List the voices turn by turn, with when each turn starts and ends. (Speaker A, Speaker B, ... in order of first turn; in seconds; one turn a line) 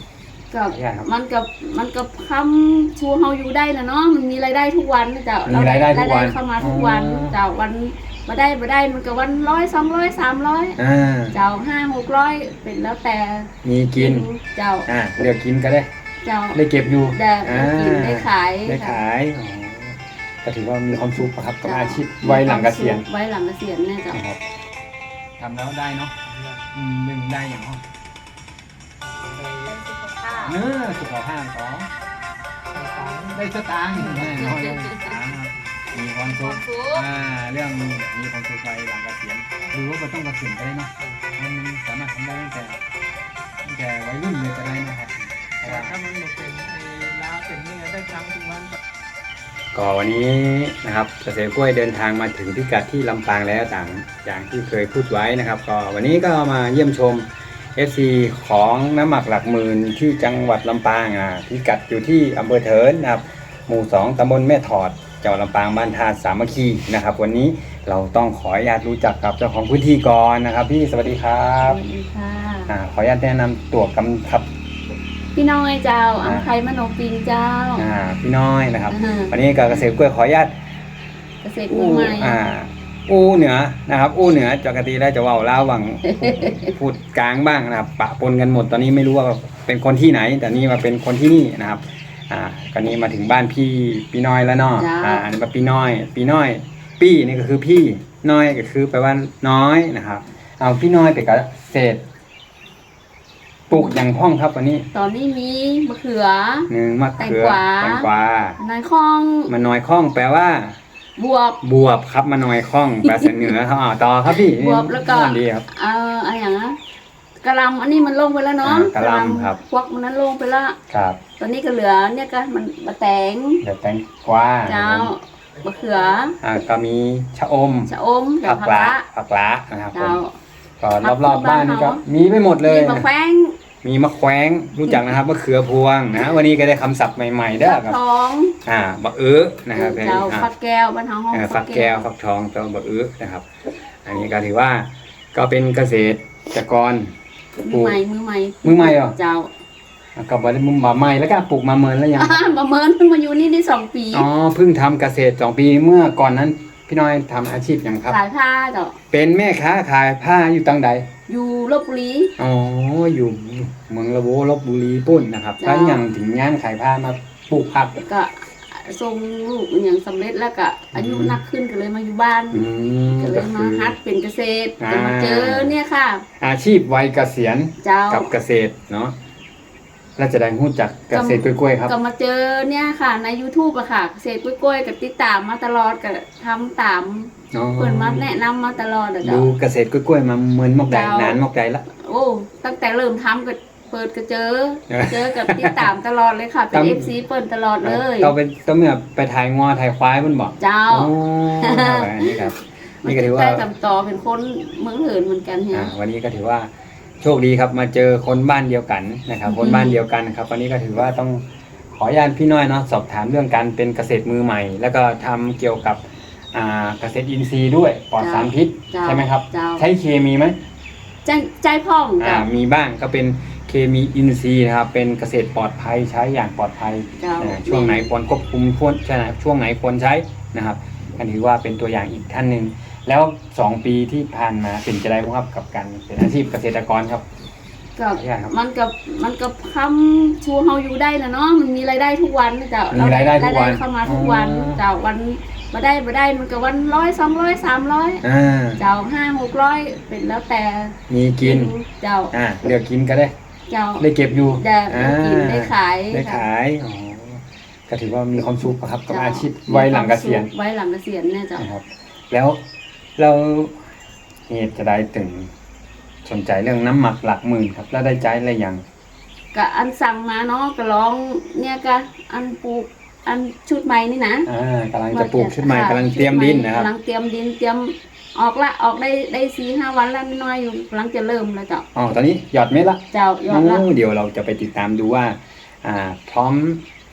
Speaker A: 0.5-10.8
Speaker B: 0.7-1.1
Speaker B: 5.5-7.4
Speaker B: 10.8-11.4
Speaker A: 11.3-14.9
Speaker B: 13.6-14.3
Speaker B: 14.9-15.9
Speaker A: 16.2-19.0
Speaker B: 16.5-23.1
Speaker A: 21.6-24.2
Speaker B: 24.1-24.4
Speaker B: 25.4-26.1
Speaker C: 26.3-26.6
Speaker B: 26.7-27.8
Speaker C: 29.0-29.8
Speaker A: 29.6-30.6
Speaker B: 30.4-31.9
Speaker C: 32.7-33.5
Speaker B: 33.3-42.8
Speaker A: 34.1-35.1
Speaker A: 36.3-37.0
Speaker C: 41.1-41.3
Speaker B: 43.6-46.0
Speaker C: 45.6-48.8
Speaker B: 49.7-71.8
Speaker A: 71.6-72.7
Speaker B: 72.7-74.5
Speaker A: 75.3-77.9
Speaker B: 76.2-76.5
Speaker B: 77.8-80.6
Speaker A: 78.9-79.9
Speaker A: 81.4-82.4
Speaker B: 81.7-102.0
Speaker A: 86.1-86.7
Speaker A: 94.8-95.3
Speaker B: 103.7-104.9
Speaker A: 104.9-109.5
Speaker B: 106.7-108.6
Speaker B: 109.5-110.8
Speaker A: 111.2-111.6
Speaker B: 111.6-115.7
Speaker A: 113.0-113.5
Speaker A: 114.3-116.8
Speaker A: 117.4-120.8
Speaker B: 118.6-119.6
Speaker B: 120.9-121.2
Speaker A: 121.4-123.6
Speaker B: 123.6-125.1
Speaker A: 124.7-126.4
Speaker B: 126.4-127.9
Speaker A: 127.9-129.0
Speaker B: 128.4-130.2
Speaker A: 129.9-130.3
Speaker B: 130.8-133.1
Speaker A: 131.0-132.0
Speaker A: 132.6-133.6
Speaker B: 133.8-138.0
Speaker A: 137.6-138.6
Speaker B: 138.6-140.5
Speaker A: 139.7-142.1
Speaker B: 141.3-143.5
Speaker B: 144.0-147.1
Speaker A: 147.6-149.5
Speaker B: 147.7-148.0
Speaker B: 148.6-149.2
Speaker B: 150.2-152.4
Speaker A: 152.2-154.3
Speaker B: 154.1-158.2
Speaker A: 158.1-159.0
Speaker B: 159.1-161.1
Speaker A: 161.3-162.3
Speaker B: 162.4-168.0
Speaker A: 165.6-166.0
Speaker A: 168.0-172.7
Speaker B: 170.9-171.4
Speaker B: 172.5-174.0
Speaker A: 173.2-176.2
Speaker B: 174.8-175.7
Speaker B: 176.4-179.2
Speaker A: 177.8-178.3
Speaker B: 180.2-181.9
Speaker A: 181.1-189.5
Speaker B: 187.5-188.3
Speaker B: 189.2-191.8
Speaker A: 190.9-198.3
Speaker B: 194.9-195.9
Speaker B: 196.7-197.1
Speaker B: 197.8-203.7
Speaker A: 200.6-202.5
Speaker A: 203.0-205.9
Speaker B: 205.7-206.7
Speaker B: 207.2-220.6
Speaker A: 209.5-210.0
Speaker A: 218.2-219.8
Speaker A: 221.2-222.5
Speaker B: 222.2-237.2
Speaker A: 227.2-228.1
Speaker A: 238.0-248.2
Speaker B: 238.1-238.5
Speaker B: 242.9-244.8
Speaker B: 248.2-248.8
Speaker A: 248.8-252.3
Speaker B: 251.1-251.8
Speaker B: 252.3-253.3
Speaker A: 253.7-256.4
Speaker B: 254.0-260.5
Speaker A: 259.1-261.6
Speaker B: 261.6-262.6
Speaker B: 263.2-263.8
Speaker B: 264.5-265.5
Speaker B: 266.2-268.8
Speaker A: 269.5-274.5
Speaker B: 274.5-276.9
Speaker A: 275.1-281.9
Speaker B: 281.9-286.8
Speaker A: 283.1-283.9